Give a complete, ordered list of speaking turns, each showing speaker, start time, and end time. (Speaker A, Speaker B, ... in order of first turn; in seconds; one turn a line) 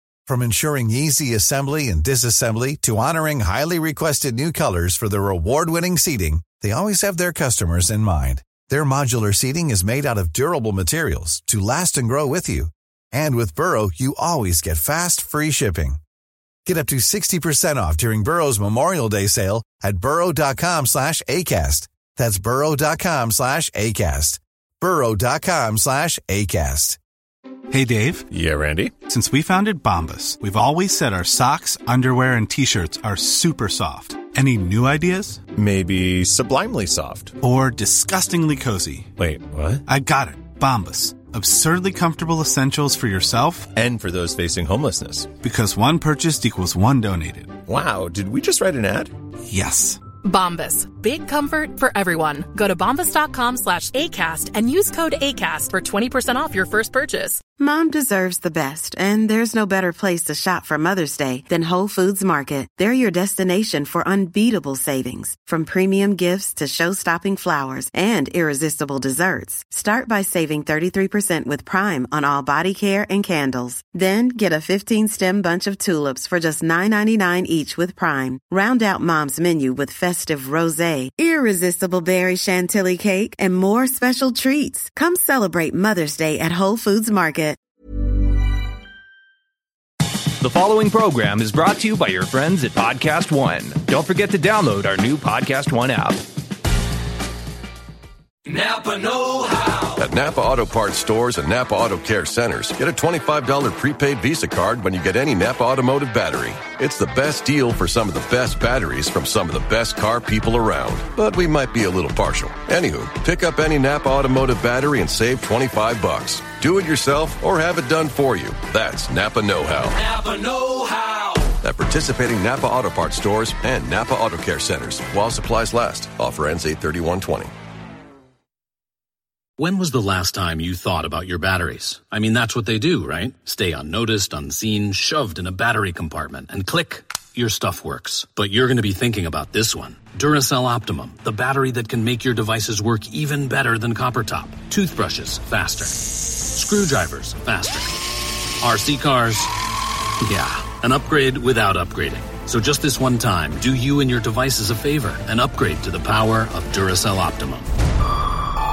Speaker A: 0.3-16.0
Speaker A: 16.7-27.0
Speaker B: 27.7-28.3
Speaker C: 28.3-29.0
Speaker B: 29.1-35.4
Speaker C: 35.5-37.4
Speaker B: 37.4-39.1
Speaker C: 39.2-39.8
Speaker B: 39.9-43.7
Speaker C: 43.7-45.3
Speaker B: 45.4-47.6
Speaker C: 47.7-49.1
Speaker B: 49.5-50.0
Speaker D: 50.2-57.4
Speaker E: 57.6-87.6
Speaker F: 90.4-96.2
Speaker G: 98.5-100.0
Speaker H: 100.0-120.0
Speaker G: 120.0-121.5
Speaker H: 121.6-127.5
Speaker I: 129.6-146.0
Speaker I: 146.5-148.1
Speaker I: 148.6-149.5
Speaker I: 150.2-157.7